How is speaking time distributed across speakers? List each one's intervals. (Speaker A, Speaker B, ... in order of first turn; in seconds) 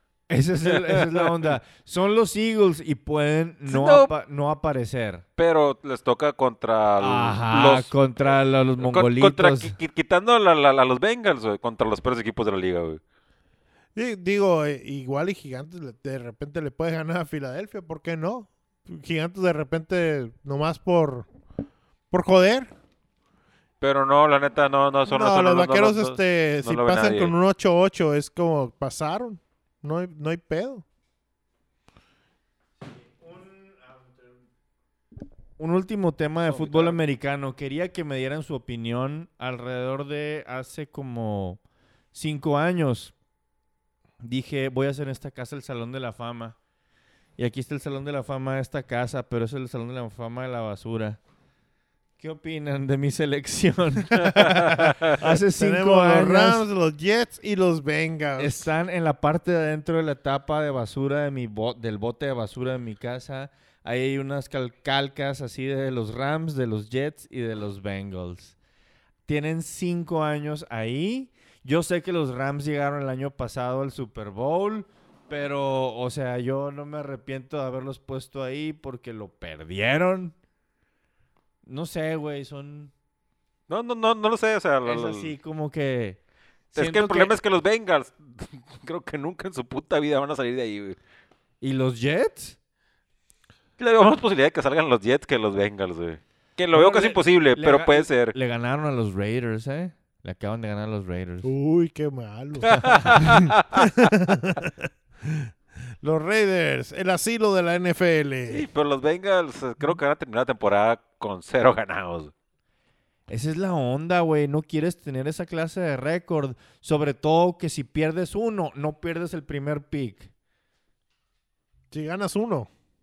Speaker A: 0.3-5.2, 7.0-9.8, 32.9-34.3, 35.6-41.6, 42.1-43.1, 44.2-46.6, 47.4-51.2, 52.2-56.6, 58.4-68.6, 69.3-80.3, 81.6-82.9, 84.8-86.2, 86.7-87.4, 91.6-92.6, 96.7-101.5, 113.3-120.3
Speaker B: 0.7-1.6, 3.7-4.1, 5.4-13.0, 23.8-27.3, 36.5-37.0, 83.7-85.3, 86.8-91.0, 93.8-98.3, 102.7-103.9, 108.5-112.3
Speaker C: 13.9-21.3, 22.1-22.7, 25.1-30.8, 55.2-58.7, 101.4-104.7, 105.2-105.5, 106.0-108.7, 121.9-122.7